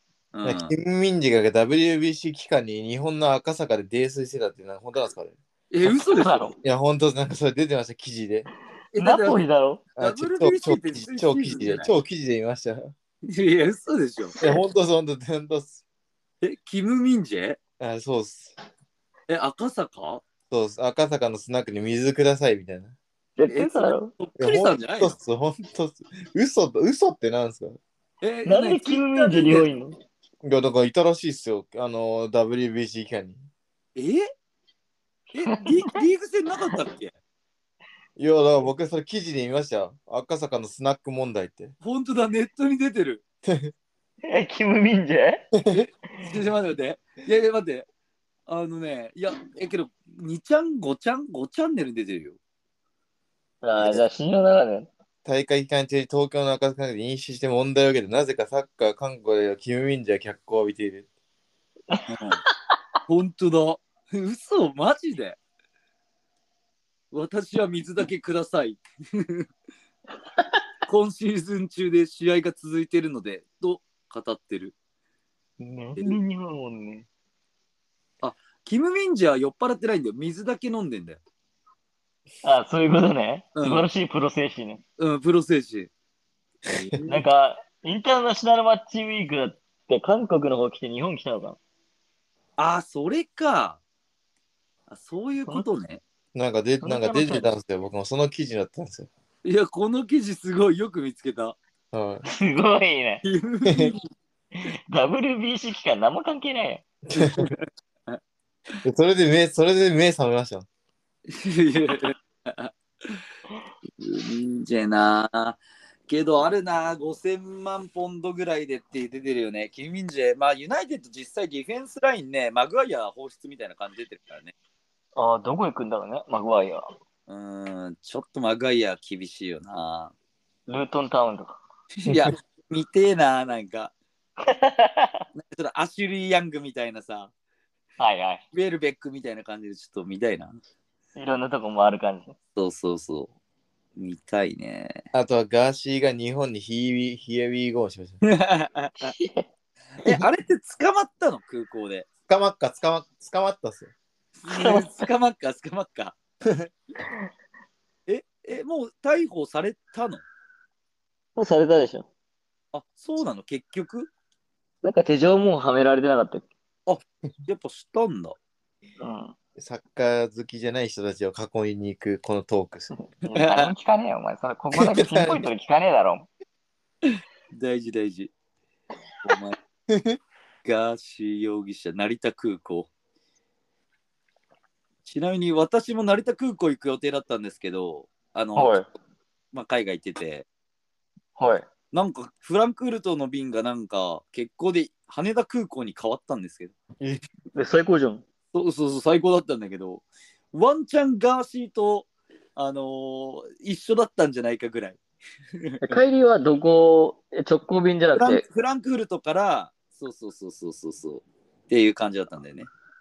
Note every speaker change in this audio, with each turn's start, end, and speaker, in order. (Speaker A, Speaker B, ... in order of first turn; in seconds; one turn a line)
Speaker A: 0.3-0.7
Speaker B: 0.4-5.3
Speaker A: 5.7-6.5
Speaker C: 5.8-6.5
Speaker B: 6.6-8.5
Speaker A: 8.9-9.4
Speaker C: 9.0-9.8
Speaker B: 10.0-12.9
Speaker A: 10.0-11.9
Speaker A: 13.2-14.3
Speaker B: 14.4-15.8
Speaker A: 16.4-17.6
Speaker B: 17.8-18.5
Speaker A: 19.3-20.2
Speaker B: 20.5-22.9
Speaker C: 23.4-24.1
Speaker A: 23.5-25.1
Speaker B: 24.4-27.8
Speaker A: 28.2-29.7
Speaker C: 28.4-29.9
Speaker B: 30.4-33.4
Speaker A: 34.0-34.3
Speaker A: 35.3-37.1
Speaker C: 35.4-36.0
Speaker B: 38.2-41.7
Speaker A: 41.8-43.2
Speaker B: 43.5-43.7
Speaker C: 44.2-45.5
Speaker A: 46.2-47.9
Speaker A: 48.5-52.4
Speaker C: 53.6-54.9
Speaker B: 55.2-61.0
Speaker A: 62.1-62.4
Speaker A: 63.1-65.4
Speaker A: 67.1-69.5
Speaker A: 70.9-74.7
Speaker C: 75.6-77.0
Speaker A: 78.2-81.2
Speaker C: 82.4-84.8
Speaker A: 83.5-83.9
Speaker A: 85.0-85.9
Speaker A: 86.7-87.2
Speaker C: 87.1-91.6
Speaker A: 92.6-93.8
Speaker A: 94.9-96.0
Speaker B: 96.3-99.1
Speaker C: 96.8-97.5
Speaker A: 99.4-101.6
Speaker B: 101.9-102.2
Speaker C: 102.3-103.2
Speaker A: 103.2-104.0
Speaker B: 103.7-103.9
Speaker C: 104.6-106.8
Speaker B: 107.1-107.5
Speaker A: 107.2-108.2
Speaker B: 108.8-110.7
Speaker A: 111.3-113.2
Speaker A: 114.0-124.5
Speaker C: 125.2-126.9
Speaker A: 127.3-130.1
Speaker C: 130.7-131.5
Speaker A: 132.0-133.9
Speaker C: 134.4-135.2
Speaker A: 135.3-137.3
Speaker C: 138.0-138.4
Speaker A: 138.5-140.6
Speaker C: 141.2-142.3
Speaker A: 142.6-143.3
Speaker A: 143.9-145.0
Speaker B: 145.1-148.2
Speaker A: 148.2-149.1
Speaker C: 149.0-149.4
Speaker A: 150.0-152.1
Speaker B: 152.3-153.9
Speaker A: 154.4-156.2
Speaker C: 154.5-155.1
Speaker A: 158.1-160.2
Speaker C: 161.3-162.1
Speaker A: 162.7-164.1
Speaker C: 164.8-166.5
Speaker A: 166.8-168.3
Speaker C: 169.0-169.3
Speaker B: 169.6-172.9
Speaker C: 173.1-176.3
Speaker A: 173.3-173.7
Speaker B: 174.8-175.4
Speaker A: 177.0-178.3
Speaker A: 179.2-179.6
Speaker B: 179.9-180.2
Speaker A: 180.6-182.9
Speaker A: 185.0-188.8
Speaker C: 188.6-188.8
Speaker A: 189.5-190.4
Speaker C: 191.4-191.7
Speaker A: 191.9-196.7
Speaker C: 197.5-198.2
Speaker A: 198.5-205.0
Speaker C: 205.8-208.4
Speaker A: 208.2-212.7